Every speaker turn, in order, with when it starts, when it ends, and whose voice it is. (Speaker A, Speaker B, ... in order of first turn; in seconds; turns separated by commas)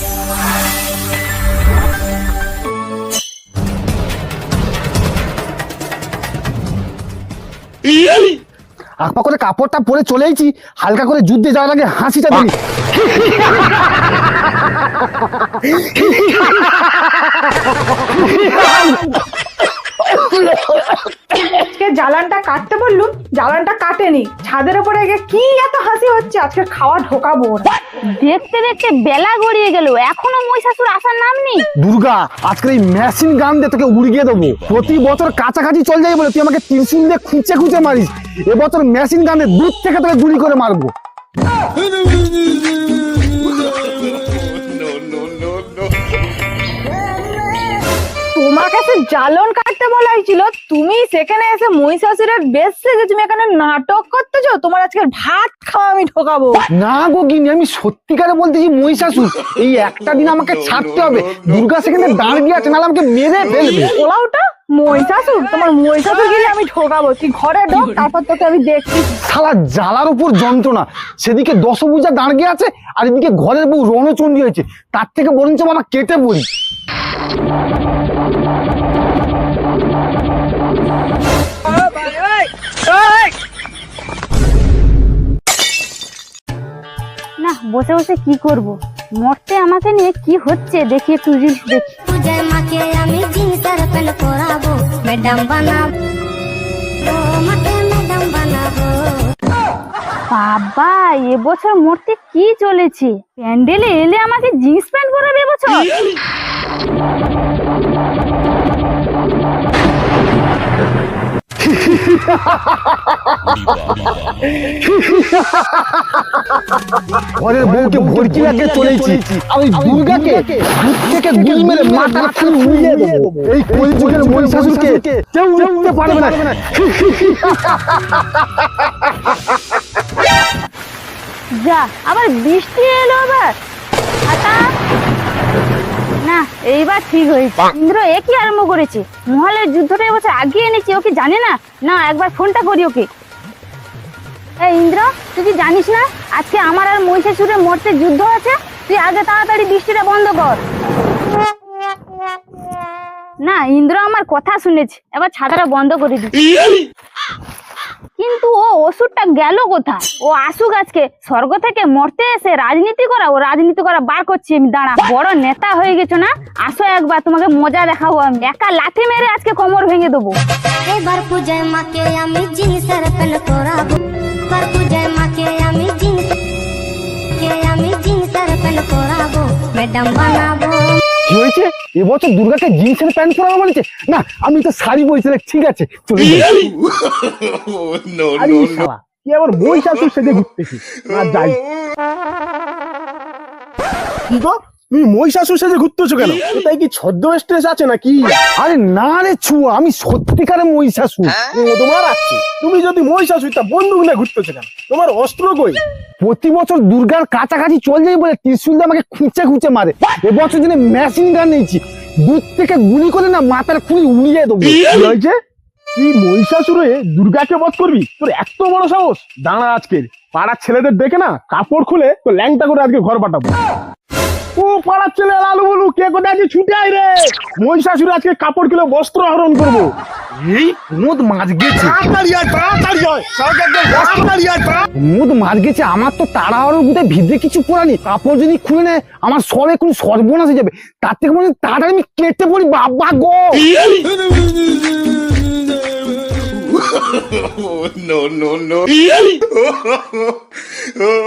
Speaker A: 9.0-19.1, Speaker A: 20.1-20.9, Speaker B: 21.4-27.7, Speaker C: 28.1-31.6, Speaker A: 31.8-40.9, Speaker D: 43.5-45.9, Speaker B: 48.3-56.6, Speaker A: 56.7-64.0, Speaker D: 60.0-62.4, Speaker B: 63.5-69.1, Speaker A: 69.2-76.5, Speaker C: 87.4-92.0, Speaker E: 92.1-95.9, Speaker E: 97.0-99.0, Speaker C: 100.3-105.9, Speaker A: 111.8-113.4, Speaker A: 114.7-116.2, Speaker A: 117.4-129.4, Speaker F: 117.6-126.8, Speaker C: 131.6-133.5, Speaker C: 134.3-134.6, Speaker C: 136.2-143.1, Speaker C: 144.6-150.6, Speaker C: 153.4-156.4, Speaker C: 158.2-170.4, Speaker E: 170.9-174.0, Speaker E: 174.5-176.3, Speaker E: 177.4-181.0, Speaker A: 181.3-186.6, Speaker D: 186.8-188.9, Speaker F: 188.3-191.6, Speaker D: 190.9-191.6, Speaker F: 194.3-198.4, Speaker A: 198.6-201.4, Speaker F: 201.4-205.8, Speaker A: 206.2-214.8, Speaker F: 214.8-215.4, Speaker F: 216.0-223.5, Speaker F: 224.6-229.9, Speaker A: 230.4-232.0, Speaker F: 231.8-234.9, Speaker A: 235.0-243.7, Speaker D: 246.7-250.3